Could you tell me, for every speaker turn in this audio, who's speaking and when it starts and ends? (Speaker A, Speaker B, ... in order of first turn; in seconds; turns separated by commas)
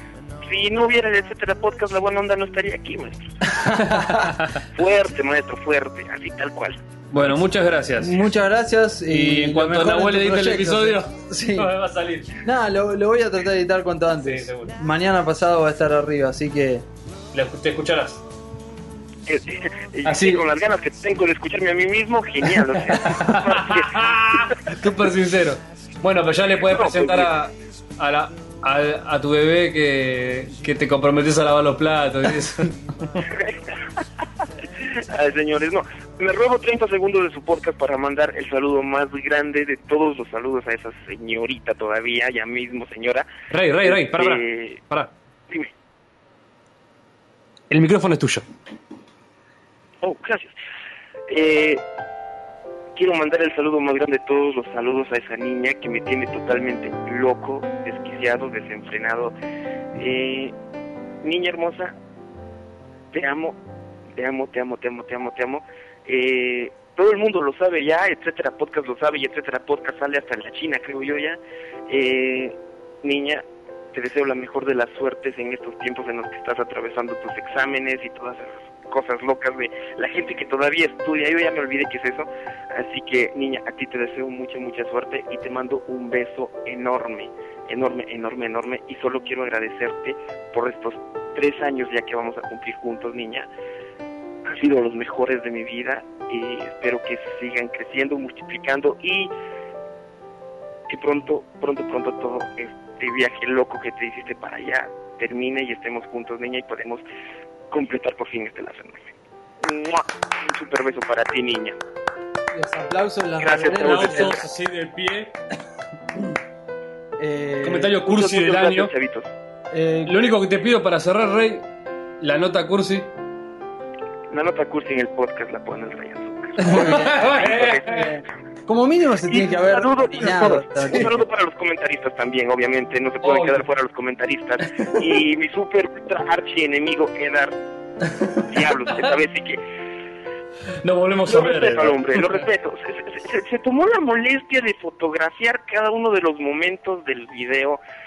Speaker A: 0.4-3.5, Speaker B: 3.5-4.3, Speaker C: 3.8-4.6, Speaker A: 4.6-6.8, Speaker C: 7.1-8.2, Speaker B: 8.0-11.7, Speaker C: 9.1-12.4, Speaker B: 12.4-16.9, Speaker C: 14.2-14.8, Speaker C: 17.3-18.2, Speaker A: 19.3-24.7, Speaker C: 20.0-20.5, Speaker C: 22.8-33.2, Speaker A: 26.6-27.3, Speaker A: 33.2-33.8, Speaker A: 34.8-43.3, Speaker C: 43.5-45.1, Speaker A: 43.9-44.8, Speaker C: 47.7-48.5, Speaker A: 50.0-50.6, Speaker A: 51.3-51.8, Speaker A: 53.0-59.4, Speaker A: 60.0-60.5, Speaker A: 61.2-61.9, Speaker A: 63.1-63.6, Speaker A: 64.2-93.5, Speaker A: 94.5-99.3, Speaker A: 100.9-107.0, Speaker A: 107.7-109.0, Speaker A: 109.6-111.8, Speaker B: 112.5-114.4, Speaker A: 113.4-114.4, Speaker C: 113.7-115.3, Speaker B: 117.2-118.0, Speaker C: 117.6-118.9, Speaker A: 118.0-119.3, Speaker B: 119.7-120.2, Speaker C: 120.1-121.7, Speaker C: 122.2-123.1, Speaker A: 124.3-128.2, Speaker C: 126.6-128.1, Speaker B: 126.6-127.3, Speaker B: 127.9-131.2, Speaker A: 129.3-137.6, Speaker C: 133.2-133.7, Speaker A: 138.5-139.6, Speaker C: 140.8-142.3, Speaker A: 141.3-147.8